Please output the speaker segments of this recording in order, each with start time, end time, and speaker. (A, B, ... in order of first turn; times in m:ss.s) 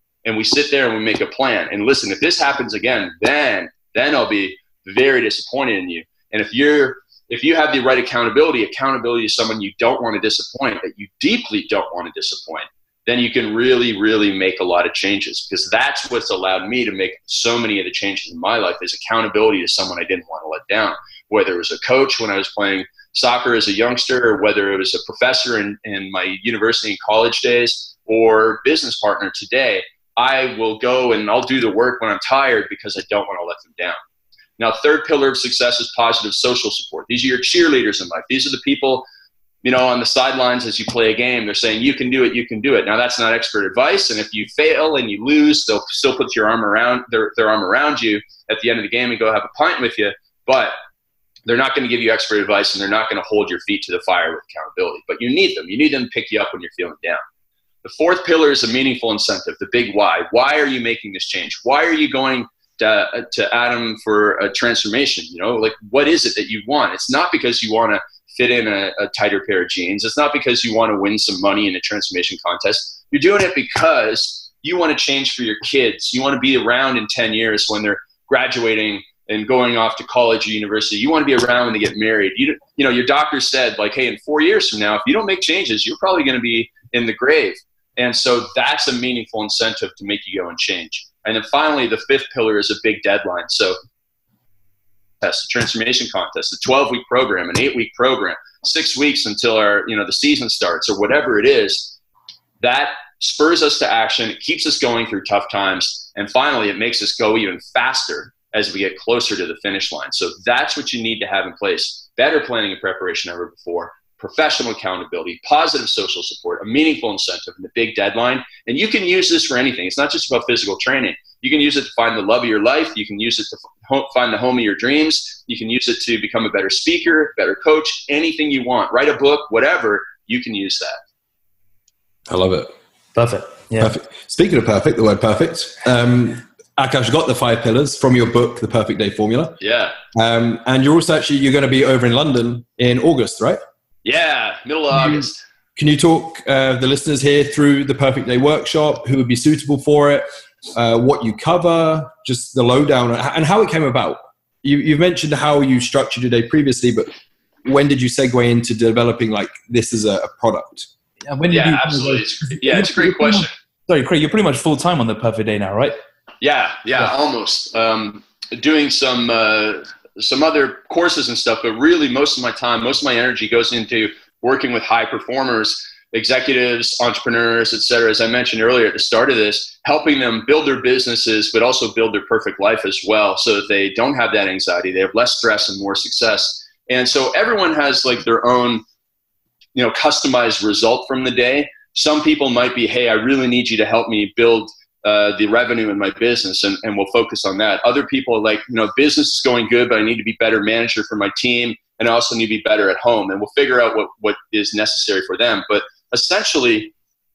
0:00.2-0:34.0 A
0:34.6-0:39.0 A
0:39.6-0:50.7 A
0:51.5-0:57.2 A
0:57.8-1:33.8 A
1:35.2-1:42.0 A
1:42.6-2:11.0 A
2:12.3-2:12.7 B
2:13.1-2:13.9 C
2:13.8-2:19.6 B
2:19.6-2:20.0 A
2:20.1-2:23.6 B
2:24.0-2:25.4 A
2:24.9-2:37.1 B
2:37.6-2:40.9 B
2:41.3-2:46.0 C
2:41.5-2:43.5 A
2:46.4-3:08.8 A
3:09.7-3:26.9 A